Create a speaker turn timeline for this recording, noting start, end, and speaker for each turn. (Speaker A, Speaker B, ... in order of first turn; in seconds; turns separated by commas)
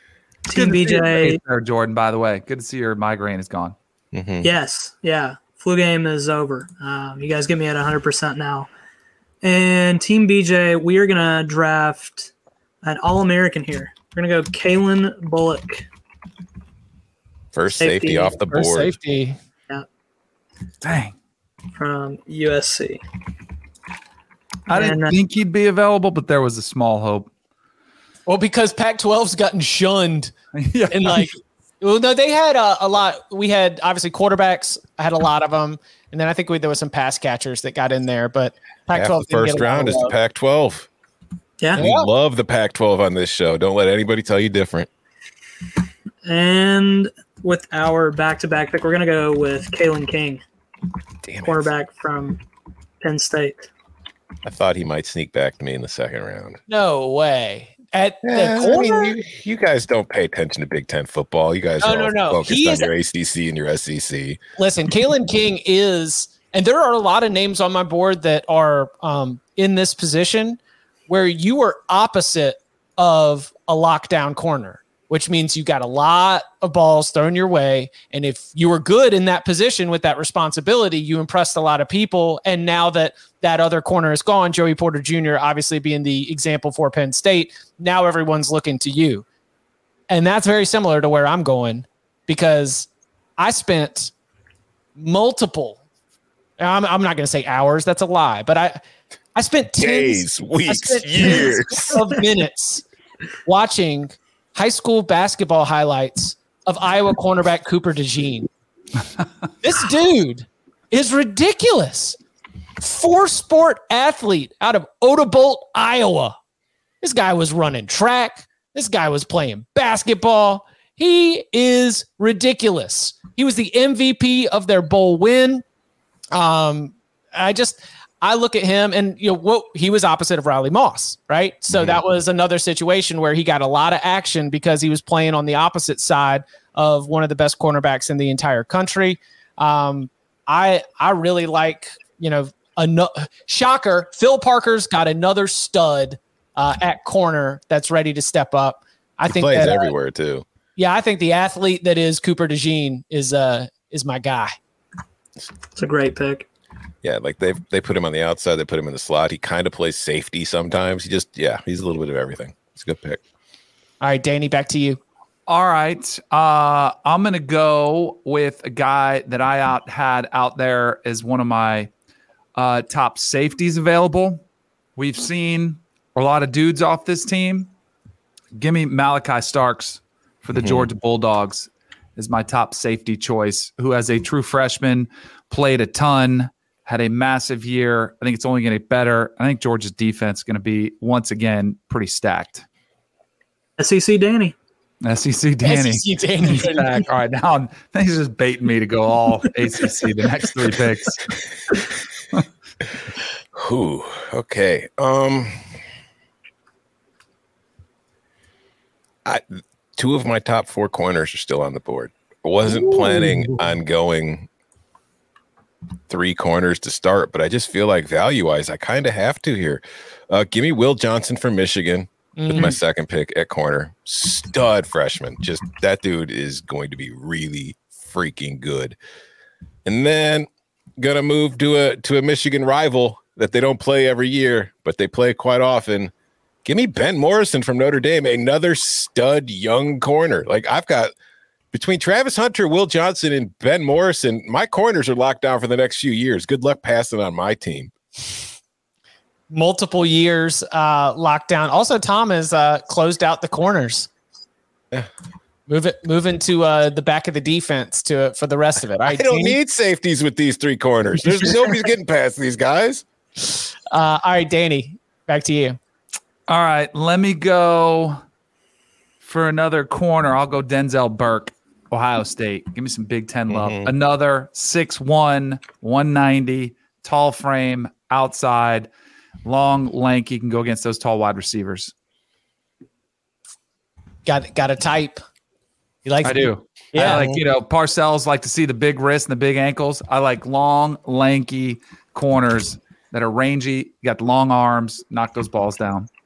Speaker A: 0.5-1.4, Speaker B: 0.5-3.8, Speaker C: 4.1-4.5, Speaker A: 4.4-8.7, Speaker A: 9.4-12.3, Speaker A: 12.8-15.8, Speaker C: 17.5-18.9, Speaker A: 17.8-18.3, Speaker D: 18.5-19.4, Speaker B: 20.8-21.1, Speaker A: 21.7-23.0, Speaker B: 24.7-27.3, Speaker A: 24.7-25.1, Speaker D: 28.3-30.3, Speaker B: 30.5-31.3, Speaker D: 30.9-40.1, Speaker C: 38.9-40.9, Speaker C: 41.7-44.9, Speaker D: 41.8-42.1, Speaker A: 46.2-50.4, Speaker C: 51.2-51.7, Speaker A: 51.5-52.4, Speaker A: 53.0-53.7, Speaker C: 54.4-56.6, Speaker D: 56.7-59.2, Speaker C: 58.2-64.4, Speaker D: 61.8-62.9, Speaker D: 64.6-89.2, Speaker D: 90.1-94.1, Speaker D: 95.0-95.8, Speaker D: 96.6-98.8, Speaker D: 99.3-102.8, Speaker C: 99.8-102.0, Speaker D: 103.4-108.5, Speaker D: 109.6-112.2, Speaker D: 112.8-116.3, Speaker D: 117.0-125.6, Speaker D: 126.3-149.9, Speaker C: 131.7-132.0, Speaker C: 149.3-150.4, Speaker D: 150.8-154.6, Speaker A: 155.8-156.4, Speaker C: 157.0-163.2, Speaker D: 164.0-165.0, Speaker B: 165.5-171.9, Speaker B: 172.5-174.4, Speaker B: 174.9-177.7, Speaker B: 178.5-192.7, Speaker C: 180.5-180.9, Speaker A: 193.8-194.6, Speaker B: 195.0-201.3, Speaker D: 195.6-197.0, Speaker C: 203.5-205.5, Speaker C: 210.0-214.5, Speaker C: 216.1-229.0, Speaker D: 222.4-222.7, Speaker C: 229.8-230.5, Speaker C: 231.0-236.1, Speaker C: 236.6-241.1, Speaker C: 241.7-247.9, Speaker D: 249.5-254.1, Speaker D: 255.7-259.6, Speaker C: 259.1-263.0, Speaker D: 263.9-265.8, Speaker B: 266.5-268.2, Speaker B: 269.2-278.9, Speaker C: 273.5-273.9, Speaker B: 279.4-281.9, Speaker D: 284.2-285.2, Speaker D: 286.0-287.4, Speaker B: 286.2-296.1